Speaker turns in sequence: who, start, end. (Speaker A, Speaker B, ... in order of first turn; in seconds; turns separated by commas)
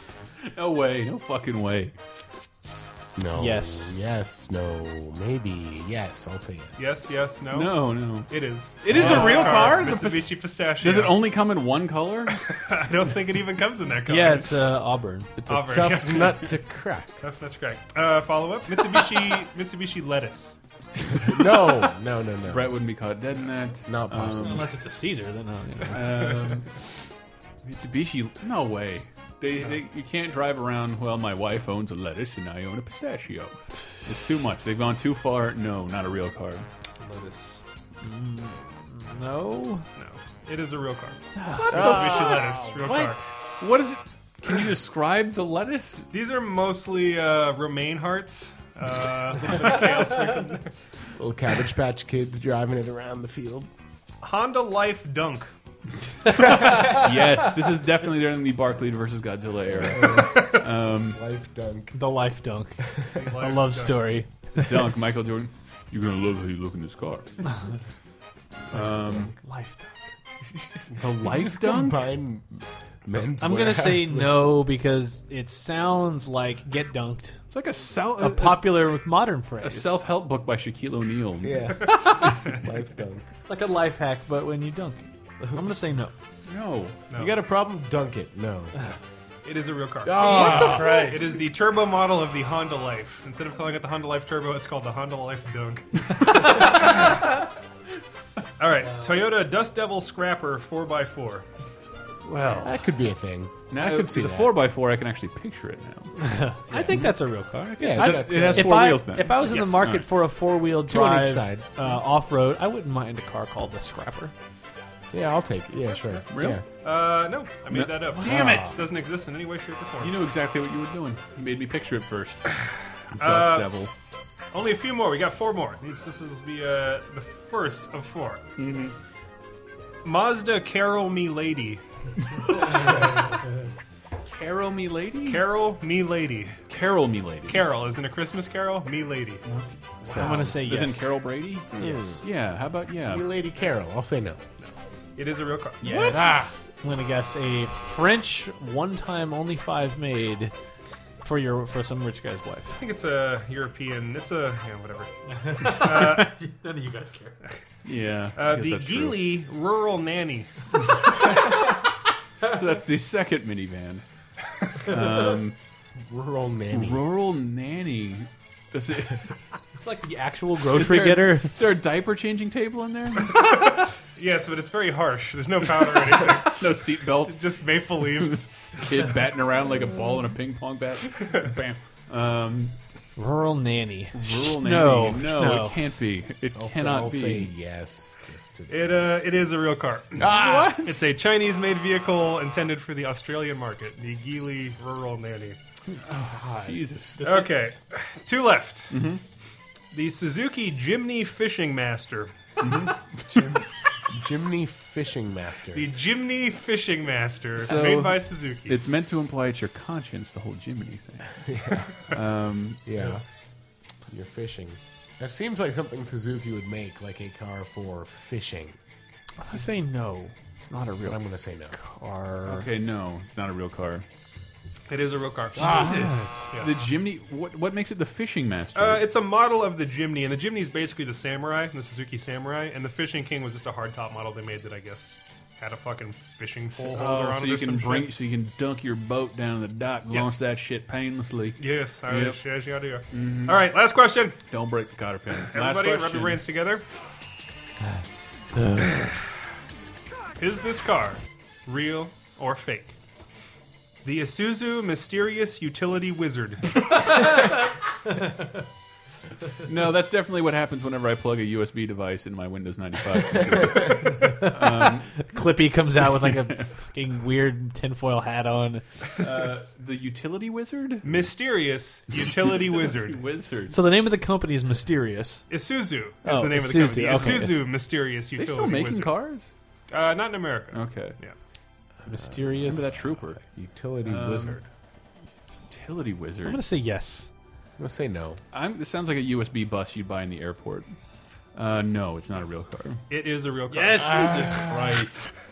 Speaker A: 0.5-1.9, Speaker B: 3.2-6.8, Speaker C: 3.3-4.0, Speaker D: 6.8-11.2, Speaker A: 7.5-12.6, Speaker C: 8.9-9.5, Speaker D: 12.5-14.7, Speaker C: 14.1-15.9, Speaker D: 15.5-16.4, Speaker B: 15.6-17.1, Speaker D: 17.2-20.6, Speaker B: 21.2-22.8, Speaker A: 22.5-24.7, Speaker B: 23.9-24.7, Speaker C: 24.4-26.1, Speaker A: 25.9-26.8, Speaker A: 27.6-36.7, Speaker C: 37.0-39.9, Speaker D: 40.0-43.2, Speaker C: 41.4-42.7, Speaker B: 41.7-43.3, Speaker A: 43.6-46.1, Speaker D: 46.1-50.7, Speaker B: 51.2-53.7, Speaker D: 54.2-55.5, Speaker A: 56.3-61.2, Speaker B: 59.9-62.0, Speaker C: 61.9-64.7, Speaker D: 63.1-64.1, Speaker A: 64.6-67.5, Speaker A: 68.7-69.3, Speaker B: 68.8-69.4, Speaker C: 69.4-69.9, Speaker B: 70.9-74.6, Speaker A: 71.0-72.0, Speaker C: 73.4-77.4, Speaker A: 77.5-79.0, Speaker C: 78.2-80.0, Speaker A: 79.6-81.8, Speaker B: 81.4-83.2, Speaker C: 81.9-82.2, Speaker C: 83.5-86.1, Speaker A: 86.5-87.0, Speaker D: 87.1-87.4, Speaker B: 87.1-88.9, Speaker D: 89.5-97.2, Speaker B: 90.0-91.1, Speaker C: 90.5-91.2, Speaker D: 98.6-101.5, Speaker A: 102.2-102.8, Speaker B: 102.6-104.7, Speaker A: 103.7-106.1, Speaker C: 106.2-114.3, Speaker B: 106.7-107.1, Speaker A: 106.9-107.2, Speaker B: 107.8-109.0, Speaker A: 107.9-110.1, Speaker B: 110.8-111.7, Speaker B: 115.1-116.6, Speaker A: 116.3-116.6, Speaker D: 116.8-120.2, Speaker A: 117.7-118.8, Speaker C: 118.2-118.8, Speaker A: 120.0-122.5, Speaker A: 123.2-123.9, Speaker D: 123.2-123.7, Speaker D: 124.5-128.4, Speaker A: 128.6-128.9, Speaker D: 130.0-131.8, Speaker A: 134.3-135.5, Speaker D: 135.3-136.6, Speaker A: 136.7-137.7, Speaker D: 137.5-139.4, Speaker A: 139.4-143.3, Speaker C: 140.1-141.2, Speaker B: 141.7-142.2, Speaker C: 141.8-142.1, Speaker B: 143.1-144.4, Speaker D: 144.6-145.9, Speaker C: 145.8-150.5, Speaker A: 145.8-146.5, Speaker C: 151.2-152.8, Speaker D: 152.8-156.4, Speaker C: 155.3-157.4, Speaker A: 157.8-159.4, Speaker D: 158.4-160.5, Speaker A: 161.1-161.8, Speaker A: 162.4-164.0, Speaker A: 164.7-165.6, Speaker B: 166.1-167.0, Speaker A: 166.7-169.3, Speaker C: 169.8-171.5, Speaker A: 170.7-173.7, Speaker D: 174.2-178.9, Speaker A: 176.5-177.5, Speaker A: 178.7-182.8, Speaker C: 183.2-185.8, Speaker A: 184.1-187.5, Speaker B: 186.6-189.2, Speaker D: 188.7-195.6, Speaker B: 190.2-190.8, Speaker A: 190.2-191.0, Speaker A: 196.0-197.2, Speaker C: 196.3-197.5, Speaker D: 197.2-198.9, Speaker A: 198.9-199.2, Speaker D: 199.9-202.3, Speaker A: 202.6-203.7, Speaker B: 204.1-205.9, Speaker D: 205.7-208.8, Speaker A: 207.6-212.8, Speaker B: 211.4-211.9, Speaker B: 212.8-213.2, Speaker B: 214.1-218.8, Speaker C: 219.4-222.7, Speaker B: 221.0-221.8, Speaker A: 222.4-224.1, Speaker D: 224.9-226.8, Speaker A: 225.6-229.1, Speaker C: 225.6-226.4, Speaker D: 228.8-238.1, Speaker A: 236.7-242.4, Speaker D: 240.1-240.4, Speaker D: 241.6-244.4, Speaker A: 243.1-243.7, Speaker A: 244.5-246.4, Speaker D: 245.5-246.8, Speaker D: 250.4-252.9, Speaker D: 254.0-256.8, Speaker A: 259.6-265.3, Speaker C: 264.3-268.8, Speaker A: 269.2-271.3, Speaker D: 271.1-273.2, Speaker A: 272.2-273.8, Speaker C: 273.7-275.4, Speaker D: 275.5-279.2, Speaker C: 276.2-277.7, Speaker A: 277.1-277.4, Speaker A: 278.4-279.5, Speaker D: 279.9-281.4, Speaker A: 280.7-281.2, Speaker C: 282.1-282.9, Speaker B: 282.1-282.7, Speaker A: 282.6-283.4, Speaker B: 283.4-284.7, Speaker A: 284.1-284.6, Speaker A: 285.7-286.6, Speaker C: 286.5-287.3, Speaker B: 287.8-288.4, Speaker A: 288.5-290.9, Speaker A: 291.6-293.1, Speaker D: 293.1-294.3, Speaker A: 293.7-295.3